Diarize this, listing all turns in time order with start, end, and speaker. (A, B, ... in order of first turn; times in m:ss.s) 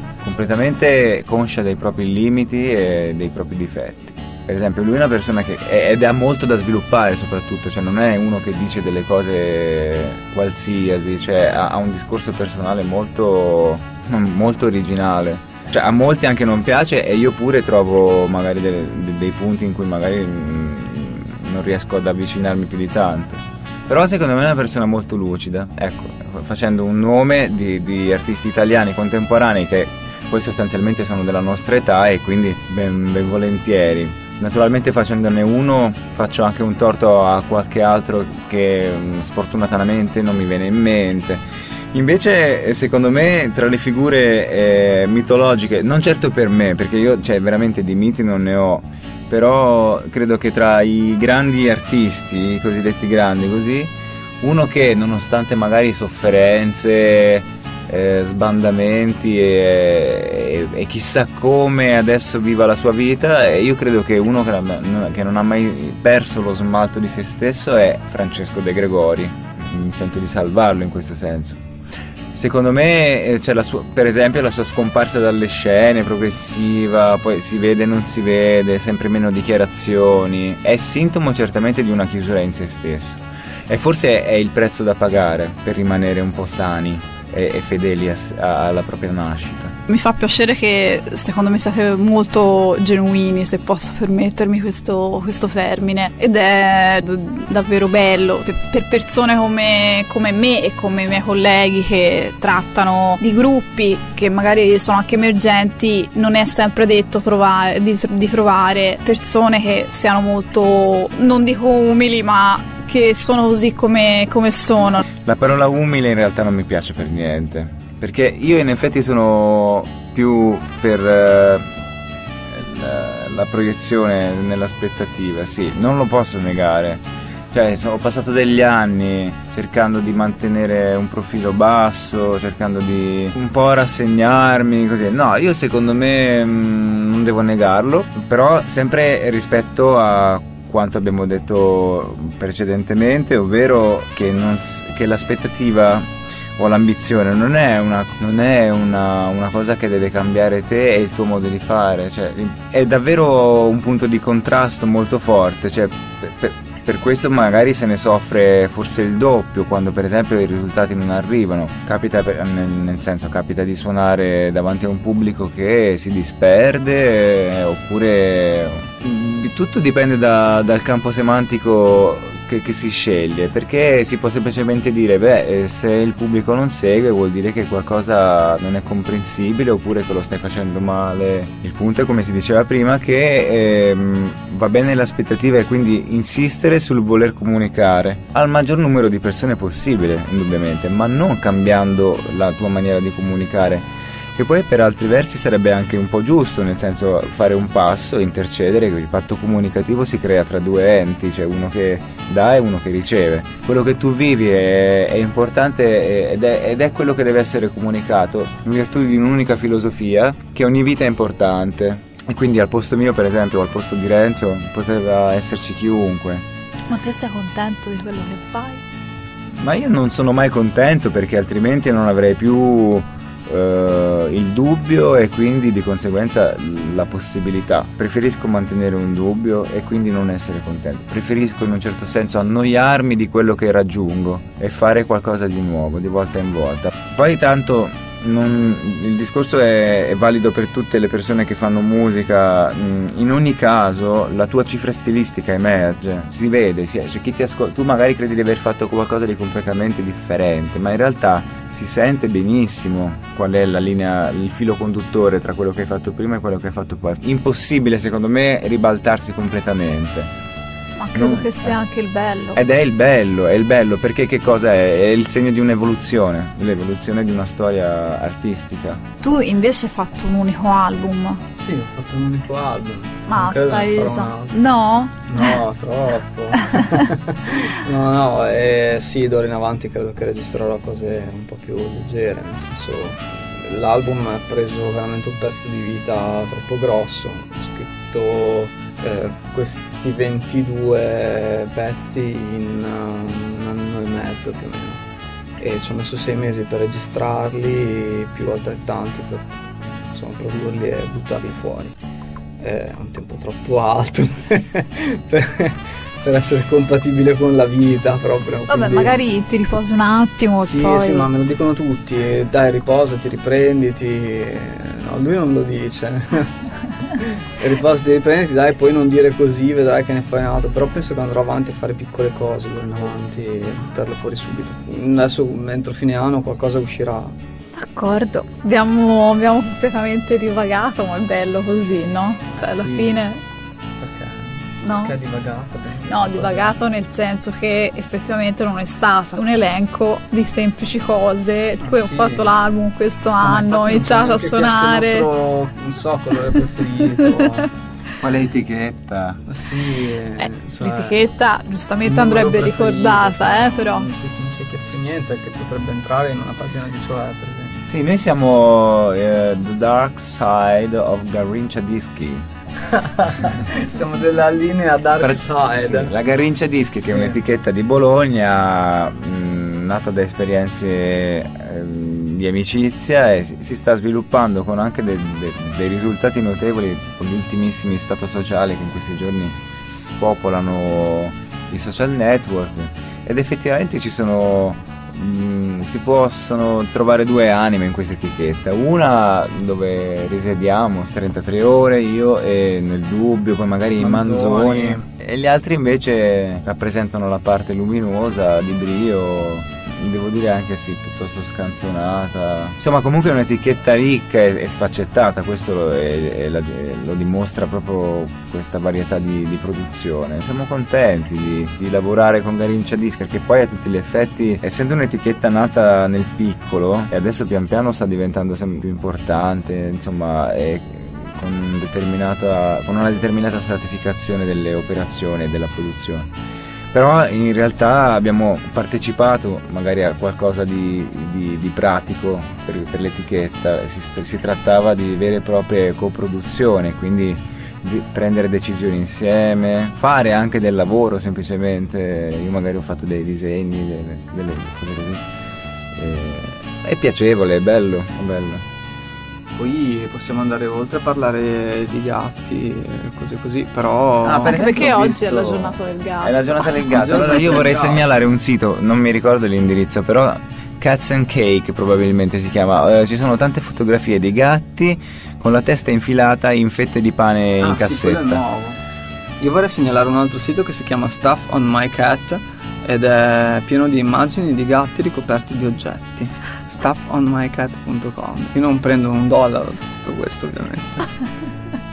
0:00.2-1:11.6 A
1:12.3-1:29.7 A
1:29.9-1:55.0 B
1:55.2-2:01.7 A
2:02.5-3:36.4 A
3:36.9-3:38.8 B
3:39.5-4:20.3 A
4:21.0-4:22.6 B
4:21.1-4:21.7 A
4:22.5-4:29.0 A
4:29.2-4:31.4 B
4:31.6-4:34.6 C
4:33.3-4:35.6 B
4:35.3-4:55.0 C
4:55.6-5:01.9 C
5:02.6-5:09.2 C
5:08.7-5:11.2 B
5:10.6-5:16.5 C
5:17.2-5:27.3 C
5:27.8-5:33.4 B
5:32.6-5:33.2 C
5:34.0-5:36.8 C
5:34.8-5:35.1 B
5:36.1-5:45.3 B
5:41.8-5:42.5 C
5:43.4-5:47.7 C
5:48.2-5:49.4 A
5:49.4-5:51.2 C
5:50.4-5:54.1 B
5:52.0-5:57.8 C
5:57.9-6:02.5 A
6:02.9-6:06.1 C
6:05.2-7:06.3 A
6:07.0-6:07.4 C
6:34.0-6:35.0 C
7:06.9-7:25.2 A
7:25.9-7:28.6 A
7:29.5-7:34.8 C
7:34.2-7:48.4 A
7:34.5-7:36.6 B
7:36.9-7:38.0 C
7:47.6-7:48.8 C
7:49.4-8:01.1 C